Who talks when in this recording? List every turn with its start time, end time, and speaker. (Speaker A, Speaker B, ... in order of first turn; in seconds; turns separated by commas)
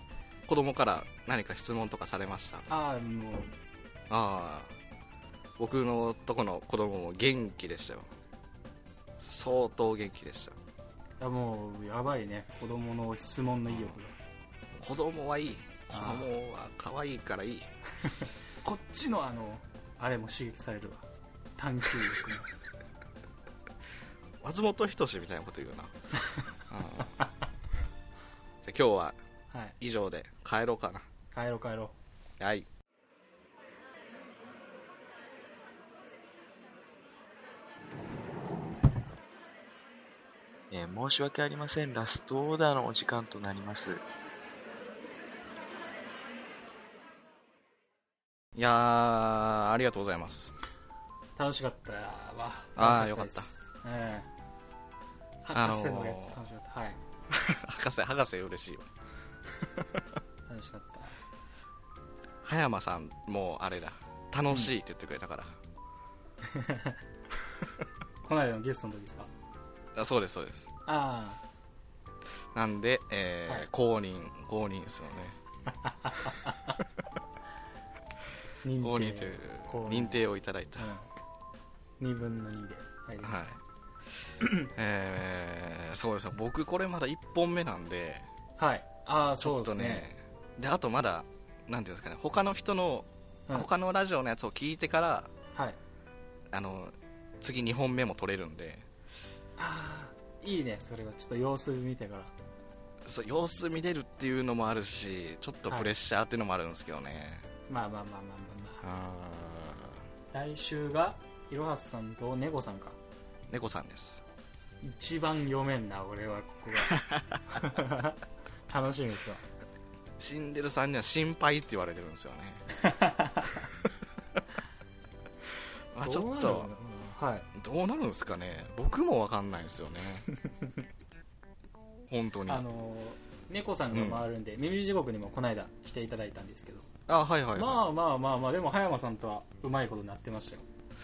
Speaker A: 0.5-2.7, Speaker B: 2.7-3.5, Speaker A: 4.1-4.7, Speaker A: 5.6-8.1, Speaker A: 9.2-10.6, Speaker B: 11.2-14.1, Speaker A: 14.8-17.7, Speaker B: 15.9-16.3, Speaker B: 18.6-21.1, Speaker B: 21.6-22.5, Speaker A: 24.4-25.9, Speaker A: 26.7-27.2, Speaker A: 28.6-29.2, Speaker B: 29.5-29.8, Speaker A: 29.8-31.1, Speaker B: 31.3-32.0, Speaker A: 32.4-32.7, Speaker C: 40.7-44.0, Speaker A: 48.6-50.5, Speaker B: 51.4-54.3, Speaker A: 52.8-53.5, Speaker B: 55.4-57.0, Speaker A: 55.5-56.4, Speaker A: 57.3-58.9, Speaker B: 60.5-61.2, Speaker A: 62.4-65.6, Speaker B: 66.5-67.0, Speaker B: 68.2-69.3, Speaker A: 70.0-70.7, Speaker B: 70.8-71.4, Speaker A: 72.5-75.4, Speaker B: 76.0-76.5, Speaker B: 78.6-80.2, Speaker A: 78.8-80.9, Speaker B: 80.8-81.1, Speaker B: 82.0-83.6, Speaker A: 83.2-83.6, Speaker B: 84.4-84.7, Speaker A: 84.7-88.2, Speaker B: 88.6-90.1, Speaker A: 89.4-95.3, Speaker A: 96.5-98.9, Speaker B: 99.6-102.3, Speaker A: 103.1-107.5, Speaker B: 107.7-108.8, Speaker A: 108.8-109.9, Speaker B: 110.3-113.0, Speaker A: 113.5-114.2, Speaker B: 114.8-119.4, Speaker A: 116.9-117.4, Speaker A: 120.2-122.7, Speaker B: 122.8-123.7, Speaker A: 125.9-126.7, Speaker B: 126.0-127.5, Speaker A: 127.5-130.3, Speaker A: 132.1-132.6, Speaker B: 132.5-136.9, Speaker A: 133.9-134.2, Speaker A: 137.1-137.8, Speaker B: 137.6-140.7